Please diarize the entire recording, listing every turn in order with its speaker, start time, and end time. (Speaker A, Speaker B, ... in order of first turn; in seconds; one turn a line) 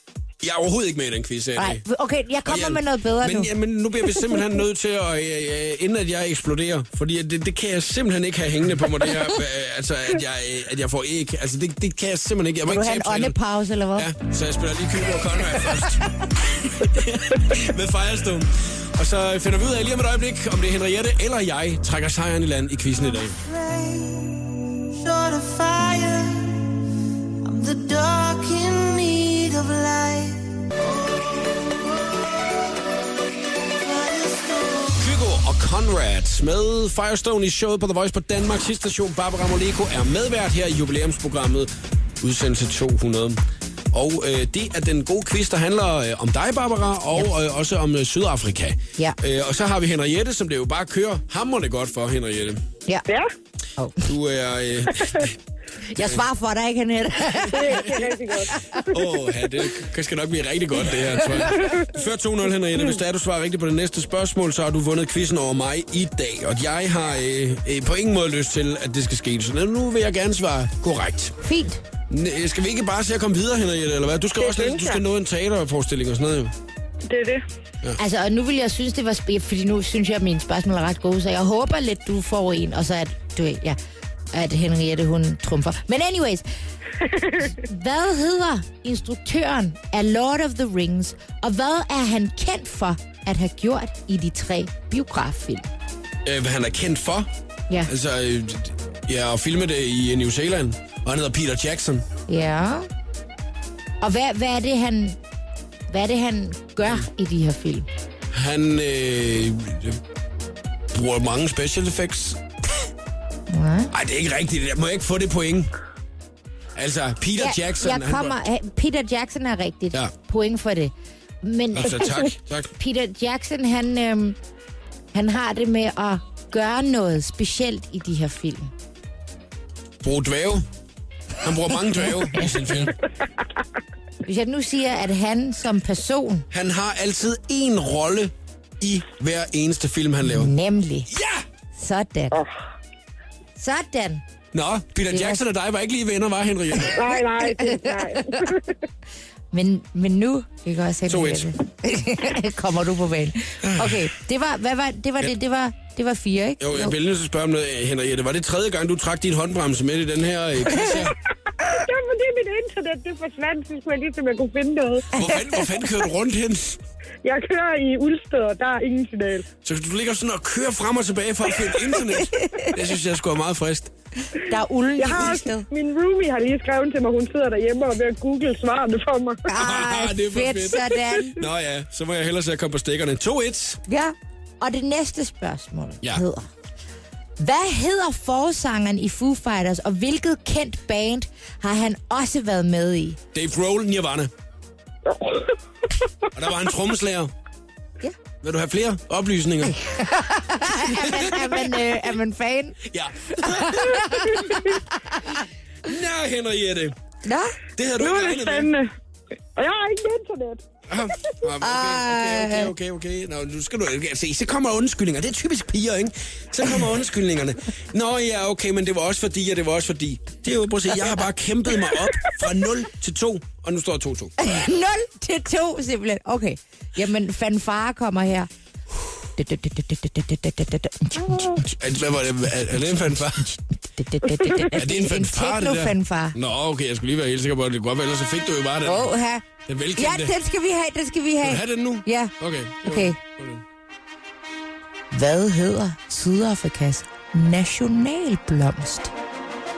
Speaker A: 0.4-1.8
Speaker B: 1.6-3.5
Speaker A: 2.5-13.4
Speaker B: 12.7-14.1
Speaker A: 13.9-23.4
Speaker C: 23.6-24.2
Speaker C: 25.0-26.5
Speaker C: 27.5-31.4
Speaker C: 33.9-34.9
Speaker A: 35.0-43.4
Speaker A: 43.9-52.6
Speaker B: 53.8-54.1
Speaker A: 54.0-55.4
Speaker B: 55.9-58.8
Speaker A: 56.0-56.2
Speaker D: 57.5-58.9
Speaker A: 57.6-58.1
Speaker A: 58.9-71.4
Speaker D: 61.6-61.8
Speaker B: 71.4-71.8
Speaker A: 72.1-76.5
Speaker D: 74.4-75.0
Speaker D: 77.1-77.4
Speaker B: 78.0-83.8
Speaker B: 84.3-86.4
Speaker D: 87.0-87.4
Speaker B: 87.4-95.7
Speaker A: 96.2-97.3
Speaker A: 97.9-102.1
Speaker B: 102.3-102.9
Speaker B: 104.0-105.2
Speaker B: 105.9-107.9
Speaker A: 108.3-110.0
Speaker A: 110.9-112.4
Speaker B: 113.5-113.9
Speaker A: 113.9-115.7
Speaker A: 116.7-118.4
Speaker B: 117.4-124.4
Speaker A: 121.7-122.7
Speaker B: 125.1-128.7
Speaker A: 130.0-130.6
Speaker A: 131.4-132.9
Speaker B: 134.2-136.4
Speaker A: 136.5-140.5
Speaker B: 140.2-141.1
Speaker A: 141.1-141.4
Speaker B: 141.8-142.4
Speaker B: 143.6-144.2
Speaker A: 144.5-147.1
Speaker B: 145.1-145.4
Speaker D: 146.9-148.7
Speaker B: 147.4-148.4
Speaker B: 149.5-156.9
Speaker A: 151.1-151.5
Speaker A: 153.7-154.1
Speaker A: 156.6-161.2
Speaker D: 161.6-165.1
Speaker A: 165.1-166.8
Speaker B: 165.2-165.6
Speaker D: 167.2-169.4
Speaker A: 169.6-173.9
Speaker B: 172.1-172.7
Speaker B: 174.4-175.7
Speaker D: 175.0-179.4
Speaker B: 179.5-181.4
Speaker A: 179.6-183.8
Speaker B: 183.9-186.5
Speaker B: 187.4-193.2
Speaker A: 193.3-194.3
Speaker D: 195.1-195.5
Speaker A: 196.3-197.3
Speaker A: 198.4-199.8
Speaker B: 199.7-202.8
Speaker A: 200.8-201.8
Speaker A: 202.8-204.5
Speaker B: 203.3-205.4
Speaker A: 205.8-206.9
Speaker B: 207.2-207.6
Speaker A: 207.8-208.7
Speaker D: 208.0-208.9
Speaker D: 209.6-210.6
Speaker A: 210.9-224.4
Speaker B: 211.6-212.7
Speaker B: 224.4-228.5
Speaker B: 229.4-231.6
Speaker A: 231.6-233.5
Speaker B: 233.4-236.3
Speaker A: 234.7-239.1
Speaker B: 238.8-242.3
Speaker A: 239.7-240.3
Speaker A: 241.4-243.6
Speaker B: 242.8-243.2
Speaker B: 245.1-249.1